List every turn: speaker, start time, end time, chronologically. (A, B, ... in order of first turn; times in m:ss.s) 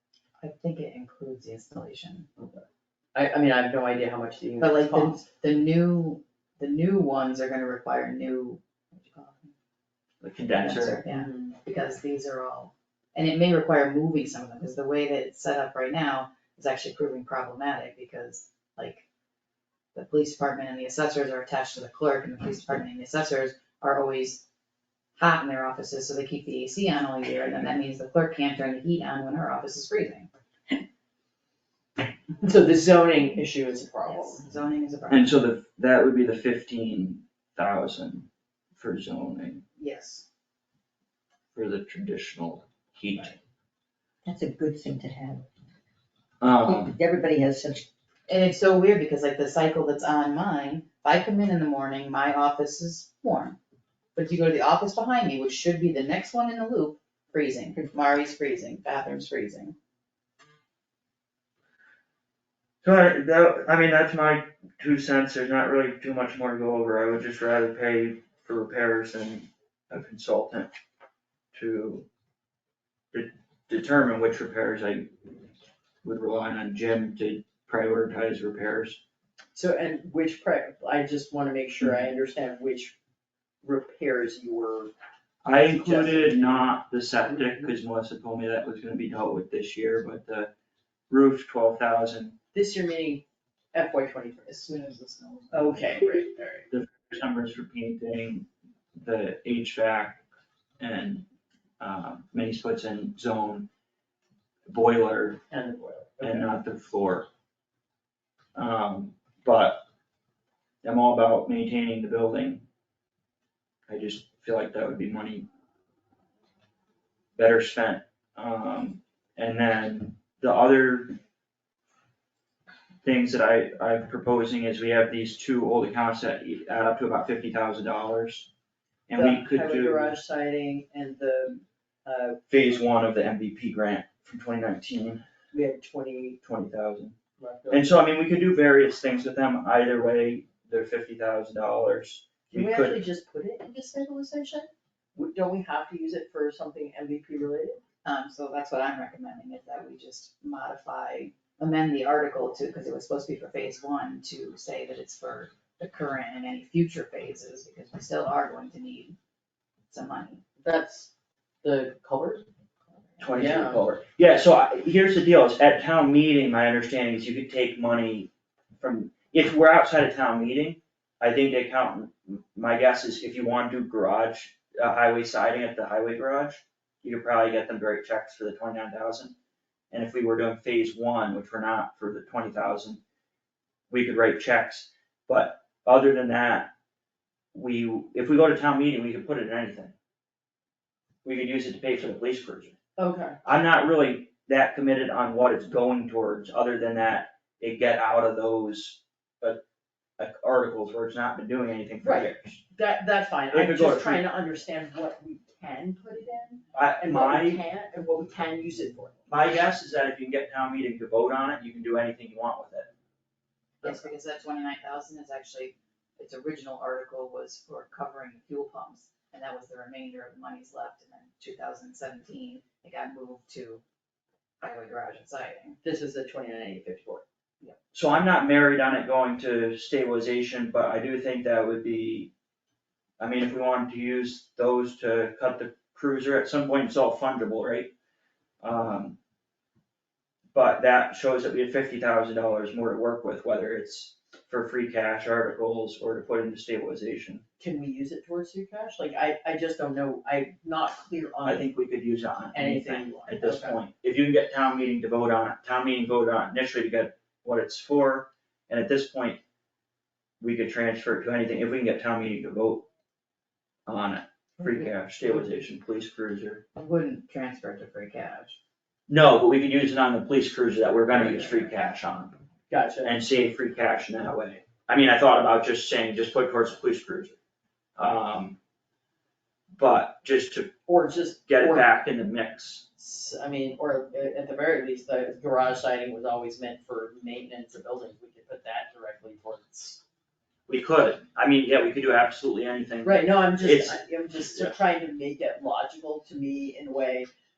0:00.4-0:02.3 A
0:03.1-0:05.2 B
0:04.6-0:09.5 A
0:10.2-0:11.0 C
0:10.6-0:19.0 A
0:11.0-0:11.5 B
0:19.9-0:24.4 A
0:25.2-0:30.3 A
0:32.4-0:34.4 B
0:34.0-0:35.4 A
0:35.1-0:39.6 C
0:39.8-0:40.2 A
0:41.5-0:43.3 C
0:44.2-0:45.5 D
0:46.4-0:46.9 C
0:46.6-0:47.9 D
0:48.3-0:53.6 A
0:54.2-0:59.7 A
1:02.8-1:10.7 C
1:11.5-1:12.0 C
1:13.1-1:15.4 C
1:16.0-1:19.0 C
1:19.5-1:22.9 B
1:23.6-1:24.9 B
1:25.4-1:30.5 C
1:25.6-1:26.7 B
1:31.1-1:32.4 C
1:32.5-1:34.6 B
1:34.5-1:35.9 A
1:35.5-1:36.7 B
1:36.7-1:40.2 C
1:40.8-1:41.2 C
1:41.8-1:43.7 C
1:44.7-1:45.4 C
1:45.5-1:46.5 B
1:46.2-1:47.3 C
1:48.5-1:49.8 C
1:50.8-1:52.6 C
1:53.9-1:55.5 C
1:57.4-2:01.2 C
2:03.0-2:08.5 C
2:09.1-2:10.1 C
2:09.1-2:12.5 B
2:12.5-2:15.2 C
2:15.5-2:16.4 B
2:16.4-2:17.1 C
2:17.4-2:17.9 B
2:17.7-2:23.0 C
2:22.5-2:27.8 B
2:28.0-2:39.2 A
2:39.9-2:40.4 A
2:40.6-2:41.1 B
2:41.6-2:42.4 B
2:43.2-2:59.3 C
2:43.3-2:43.8 B
2:59.9-3:03.0 C
3:03.9-3:06.7 C
3:07.5-3:09.9 C
3:11.2-3:12.7 C
3:13.0-3:13.4 B
3:13.4-3:19.6 C
3:20.2-3:22.6 C
3:22.0-3:29.4 B
3:23.5-3:24.2 C
3:26.7-3:27.6 C
3:29.3-3:32.9 C
3:33.8-3:43.8 A
3:33.8-3:34.1 B
3:44.6-3:45.8 A
3:45.8-3:47.2 B
3:47.9-3:52.3 C
3:53.2-3:57.9 C
3:58.6-3:59.2 C
4:00.5-4:07.4 C
4:07.6-4:11.7 B
4:11.4-4:19.4 C
4:12.5-4:13.8 B
4:20.4-4:22.8 C
4:23.9-4:26.6 C
4:26.8-4:28.6 A
4:29.1-4:32.4 C
4:32.7-4:33.2 B
4:33.0-4:37.4 C
4:38.0-4:38.6 C
4:39.8-4:40.7 C
4:40.9-4:41.9 B
4:41.5-4:42.8 C
4:43.0-4:50.0 B
4:50.7-4:54.0 C
4:53.0-4:57.3 B